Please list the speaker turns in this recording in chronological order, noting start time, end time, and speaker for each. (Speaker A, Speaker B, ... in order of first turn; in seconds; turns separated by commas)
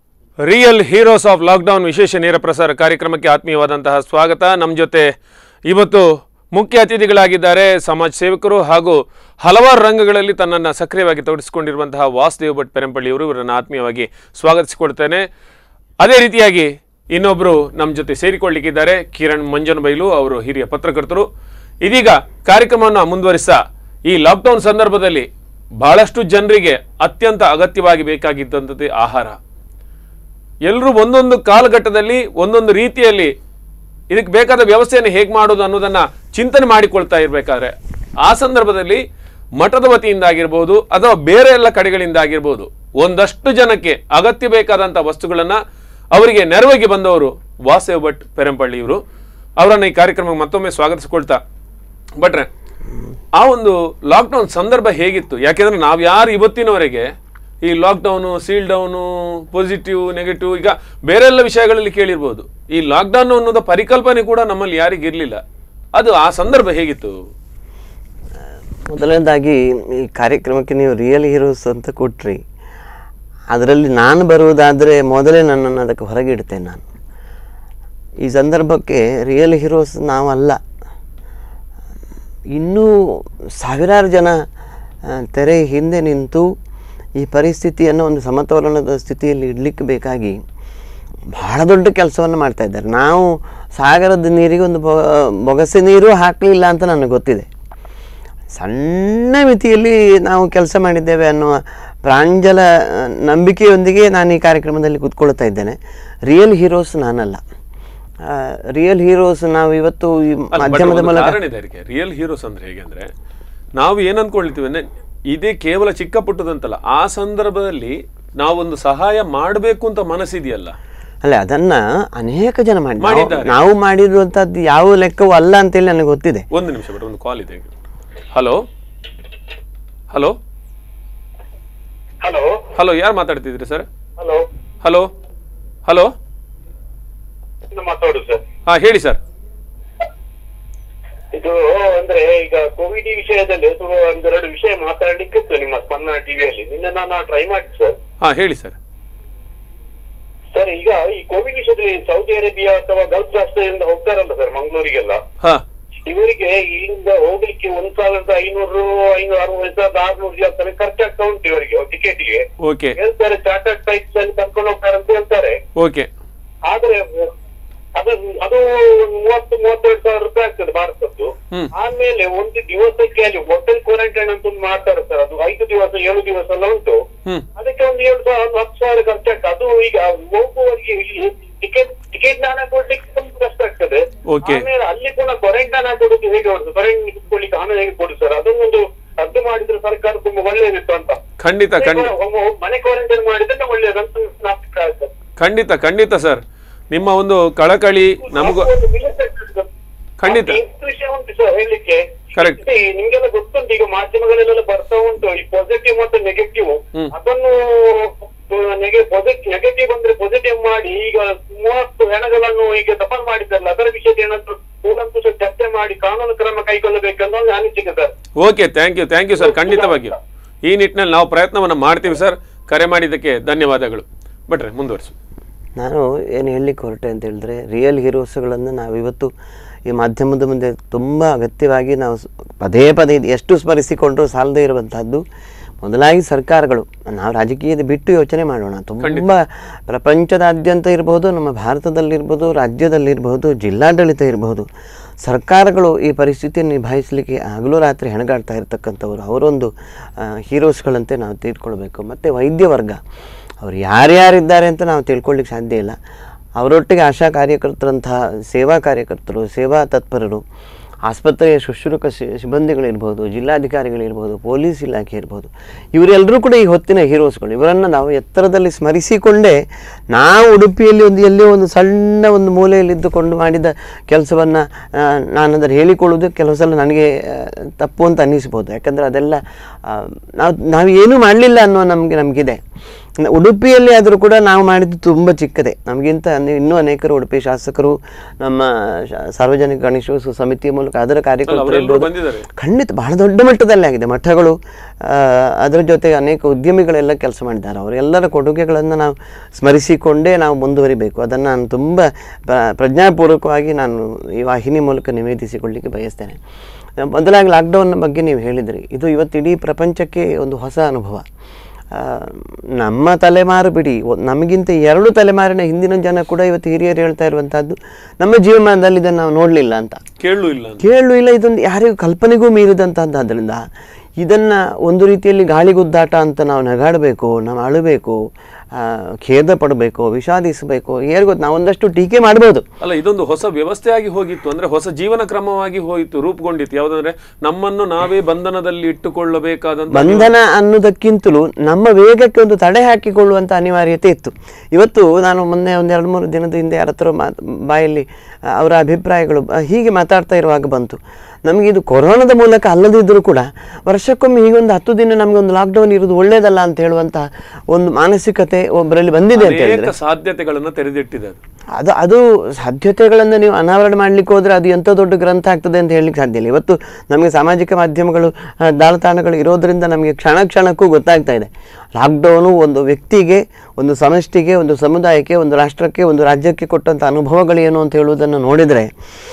Speaker A: 0.4-5.1, Speaker A: 5.7-15.3, Speaker A: 16.0-21.3, Speaker A: 21.9-29.4, Speaker A: 30.6-33.3, Speaker A: 34.1-39.0, Speaker A: 39.6-45.6, Speaker A: 46.1-49.0, Speaker A: 49.6-51.4, Speaker A: 52.2-52.5, Speaker A: 53.4-57.1, Speaker A: 57.6-65.4, Speaker A: 65.9-67.2, Speaker B: 68.9-72.4, Speaker B: 73.5-76.8, Speaker B: 78.2-80.6, Speaker B: 82.5-84.4, Speaker B: 85.0-86.5, Speaker B: 87.2-90.4, Speaker B: 91.3-97.5, Speaker B: 98.5-107.4, Speaker B: 108.2-111.4, Speaker A: 110.5-113.1, Speaker A: 113.8-120.8, Speaker B: 121.2-126.5, Speaker A: 123.0-123.6, Speaker A: 126.5-127.7, Speaker A: 128.3-128.6, Speaker A: 130.1-130.4, Speaker C: 132.2-132.6, Speaker A: 132.7-133.9, Speaker C: 134.2-134.5, Speaker A: 134.8-135.1, Speaker A: 135.9-136.1, Speaker C: 137.7-138.4, Speaker A: 138.7-139.2, Speaker C: 141.3-148.0, Speaker A: 148.2-148.8, Speaker C: 150.5-155.2, Speaker C: 156.1-162.5, Speaker A: 162.6-163.0, Speaker C: 163.0-165.6, Speaker A: 165.8-166.1, Speaker C: 166.7-167.3, Speaker C: 167.9-177.0, Speaker C: 177.6-191.2, Speaker A: 184.3-184.7, Speaker A: 191.4-192.1, Speaker C: 191.8-195.1, Speaker A: 195.4-198.7, Speaker C: 198.3-199.7, Speaker A: 200.2-200.6, Speaker C: 200.3-218.1, Speaker A: 202.4-202.6, Speaker A: 218.4-225.1, Speaker C: 219.4-220.1, Speaker B: 225.8-229.3, Speaker B: 229.9-235.2, Speaker B: 235.8-244.7, Speaker A: 239.0-239.3, Speaker B: 245.2-253.0, Speaker B: 253.6-256.0, Speaker B: 256.6-260.4, Speaker B: 261.1-269.6, Speaker B: 270.1-282.6, Speaker B: 283.2-306.4, Speaker A: 291.5-292.5, Speaker B: 307.0-311.2, Speaker B: 311.9-320.0, Speaker A: 320.2-320.8, Speaker B: 320.8-323.6, Speaker B: 324.2-328.2, Speaker B: 328.7-332.6, Speaker A: 332.8-340.3, Speaker B: 339.9-359.9, Speaker A: 359.3-361.4, Speaker B: 361.8-378.9